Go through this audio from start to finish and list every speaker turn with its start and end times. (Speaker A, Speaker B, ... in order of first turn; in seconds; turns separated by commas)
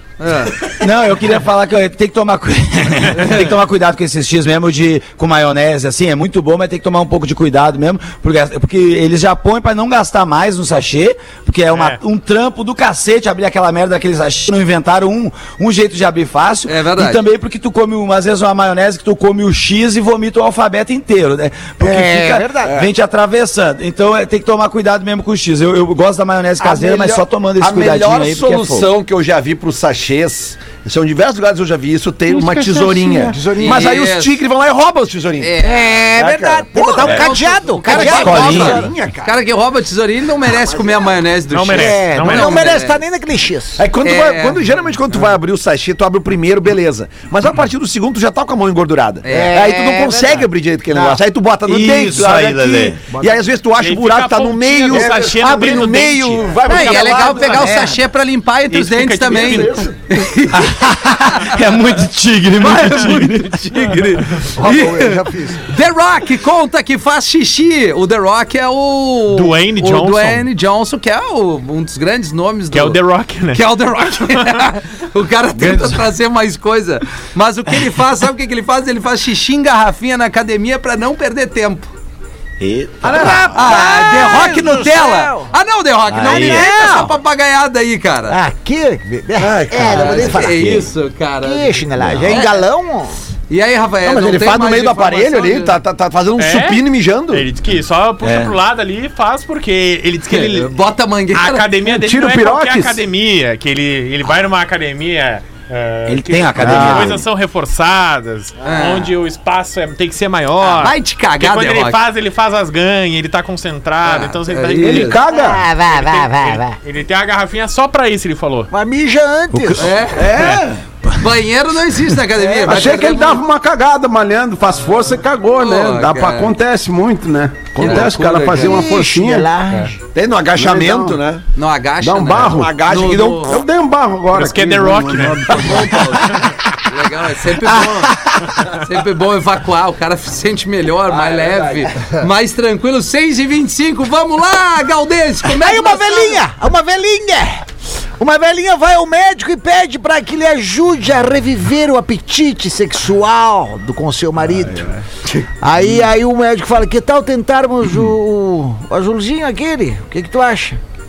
Speaker A: 0.2-0.5, Speaker B: 0.8-28.9, Speaker A: 3.1-3.4, Speaker C: 11.7-12.0, Speaker A: 16.6-17.2, Speaker D: 21.8-22.7, Speaker E: 26.6-35.5, Speaker D: 32.4-33.8, Speaker A: 33.5-34.3, Speaker A: 35.4-36.0, Speaker D: 35.6-38.9, Speaker E: 36.1-39.4, Speaker A: 36.9-43.0, Speaker B: 38.1-38.9, Speaker C: 41.5-42.7, Speaker D: 41.7-43.8, Speaker E: 43.8-57.9, Speaker A: 44.0-44.6, Speaker A: 49.2-49.6, Speaker D: 49.3-51.2, Speaker B: 51.6-53.0, Speaker D: 53.1-53.4, Speaker C: 53.8-56.8, Speaker A: 56.6-60.8, Speaker C: 58.7-59.9, Speaker E: 59.3-59.9, Speaker B: 60.5-63.8, Speaker A: 62.6-81.9, Speaker D: 64.5-65.6, Speaker C: 69.3-70.5, Speaker C: 72.7-73.7, Speaker B: 75.5-76.0, Speaker B: 82.6-83.7, Speaker D: 83.0-85.5, Speaker A: 83.4-88.4, Speaker B: 86.1-86.7, Speaker D: 86.3-87.1, Speaker D: 88.3-90.8, Speaker E: 89.4-90.5, Speaker A: 89.8-92.6, Speaker B: 90.4-90.9, Speaker D: 91.4-93.2, Speaker B: 92.0-92.4, Speaker A: 93.5-95.8, Speaker E: 94.0-97.4, Speaker C: 96.4-100.7, Speaker B: 98.2-98.5, Speaker A: 100.3-101.7, Speaker C: 101.3-115.2, Speaker F: 101.9-103.0, Speaker B: 106.1-107.2, Speaker A: 108.6-109.1, Speaker A: 110.6-112.0, Speaker A: 114.0-115.1, Speaker F: 114.8-115.6, Speaker D: 115.3-116.7, Speaker C: 115.9-118.7, Speaker D: 118.7-119.9, Speaker B: 119.5-119.9, Speaker A: 119.8-120.3, Speaker E: 120.1-120.8, Speaker A: 121.2-123.4, Speaker E: 122.4-123.0, Speaker F: 122.6-129.5, Speaker A: 125.5-126.5, Speaker A: 127.8-128.8, Speaker E: 127.8-128.7, Speaker D: 128.6-130.0, Speaker E: 130.1-131.4, Speaker F: 130.5-131.2, Speaker A: 131.5-133.6, Speaker F: 132.0-132.8, Speaker E: 132.4-133.7, Speaker F: 133.5-135.9, Speaker C: 134.3-136.4, Speaker A: 135.6-146.4, Speaker E: 141.1-141.9, Speaker D: 145.5-147.6, Speaker D: 148.2-154.9, Speaker D: 155.6-160.8